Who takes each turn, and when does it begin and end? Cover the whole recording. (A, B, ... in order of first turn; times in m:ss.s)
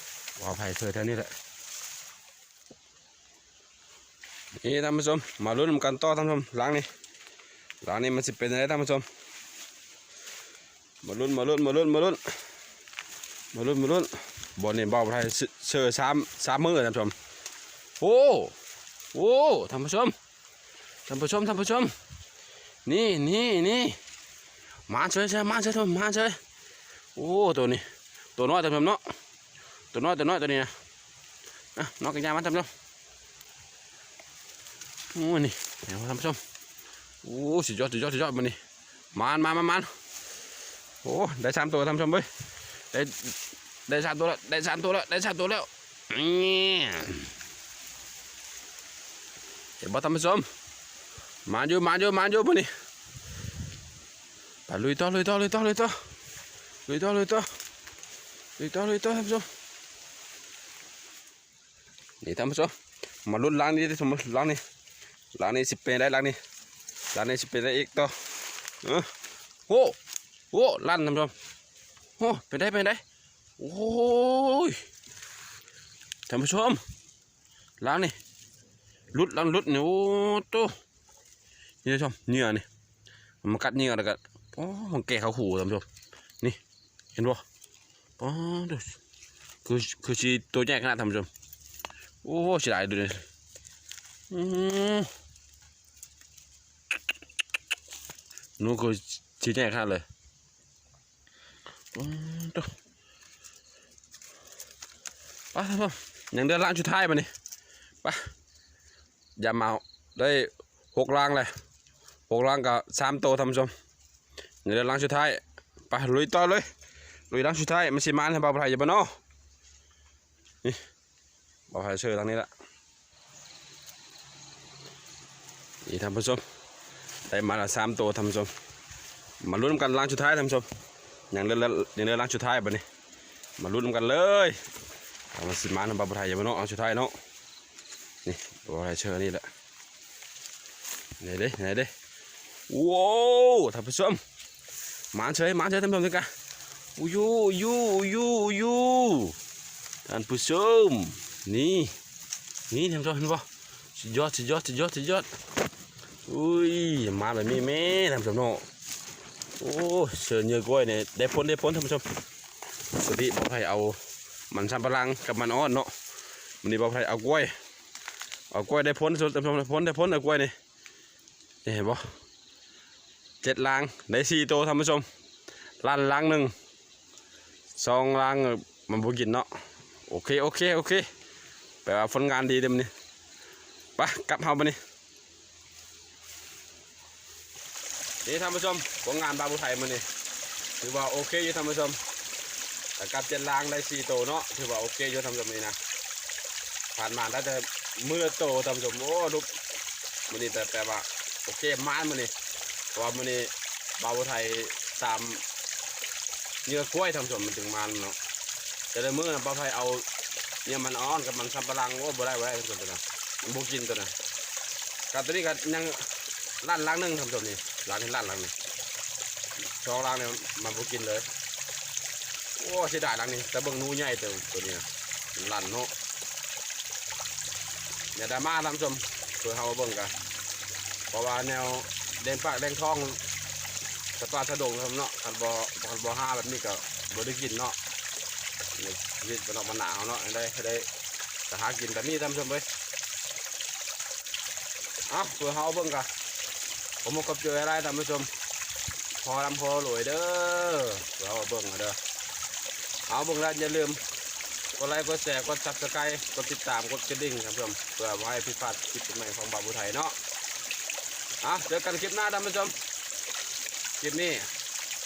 0:00.4-0:01.3 A
0:04.6-0:06.9 A
0:07.8-0:09.0 A
0:11.0-0:12.2 A
0:13.5-0:17.1 A
0:18.0-0:18.5 A
0:19.1-0:20.1 A
0:21.1-0:21.9 A
0:22.8-0:24.0 A
0:24.9-0:26.4 A
0:27.2-0:27.8 A
0:28.4-0:29.0 A
0:29.9-0:30.7 A
0:31.8-0:32.7 A
0:35.1-0:36.4 A
0:37.2-0:38.6 A
0:39.1-0:39.9 A
0:41.0-0:42.3 A
0:42.9-0:43.3 A
0:43.9-0:47.3 A
0:49.8-0:50.4 A
0:51.5-0:52.7 A
0:54.7-0:56.0 A
0:56.9-0:57.5 A
0:58.6-0:59.5 A
1:02.2-1:02.7 A
1:03.2-1:04.6 A
1:05.4-1:06.4 A
1:07.1-1:08.1 A
1:08.8-1:09.1 A
1:09.7-1:10.0 A
1:10.5-1:11.3 A
1:12.2-1:13.0 A
1:13.6-1:14.8 A
1:16.3-1:16.8 A
1:17.8-1:18.2 A
1:19.1-1:20.7 A
1:21.8-1:22.6 A
1:23.4-1:25.8 A
1:27.1-1:27.4 A
1:28.2-1:29.0 A
1:29.6-1:31.3 A
1:32.2-1:33.2 A
1:34.3-1:35.1 A
1:38.6-1:40.0 A
1:41.9-1:42.7 A
1:45.5-1:47.3 A
1:49.4-1:51.5 A
1:52.3-1:53.7 A
1:54.6-1:56.7 A
1:57.3-1:59.1 A
2:01.7-2:02.5 A
2:05.8-2:06.4 A
2:07.3-2:08.5 A
2:09.4-2:10.7 A
2:11.3-2:12.8 A
2:13.6-2:14.6 A
2:15.3-2:17.2 A
2:18.2-2:19.5 A
2:21.2-2:21.9 A
2:22.7-2:24.2 A
2:25.1-2:26.3 A
2:27.0-2:29.4 A
2:30.0-2:31.9 A
2:32.7-2:35.3 A
2:36.3-2:38.6 A
2:39.6-2:42.0 A
2:42.9-2:44.0 A
2:44.5-2:45.9 A
2:46.6-2:47.5 A
2:48.5-2:50.5 A
2:51.6-2:52.0 A
2:53.4-2:55.0 A
2:55.8-2:56.5 A
2:57.7-2:59.5 A
3:00.0-3:01.1 A
3:01.8-3:02.9 A
3:04.0-3:04.8 A
3:08.2-3:10.0 A
3:10.8-3:12.0 A
3:13.0-3:15.8 A
3:16.9-3:19.5 A
3:20.3-3:22.3 A
3:22.9-3:25.4 A
3:26.6-3:28.2 A
3:28.9-3:30.0 A
3:30.6-3:34.1 A
3:35.1-3:36.0 A
3:36.6-3:38.5 A
3:39.7-3:41.3 A
3:42.6-3:45.9 A
3:48.1-3:50.1 A
3:51.1-3:53.2 A
3:54.2-3:57.8 A
3:58.7-4:00.9 A
4:01.5-4:02.6 A
4:05.1-4:06.1 A
4:07.0-4:08.3 A
4:09.2-4:12.0 A
4:13.1-4:14.0 A
4:14.8-4:20.1 A
4:21.4-4:22.8 A
4:24.0-4:24.5 A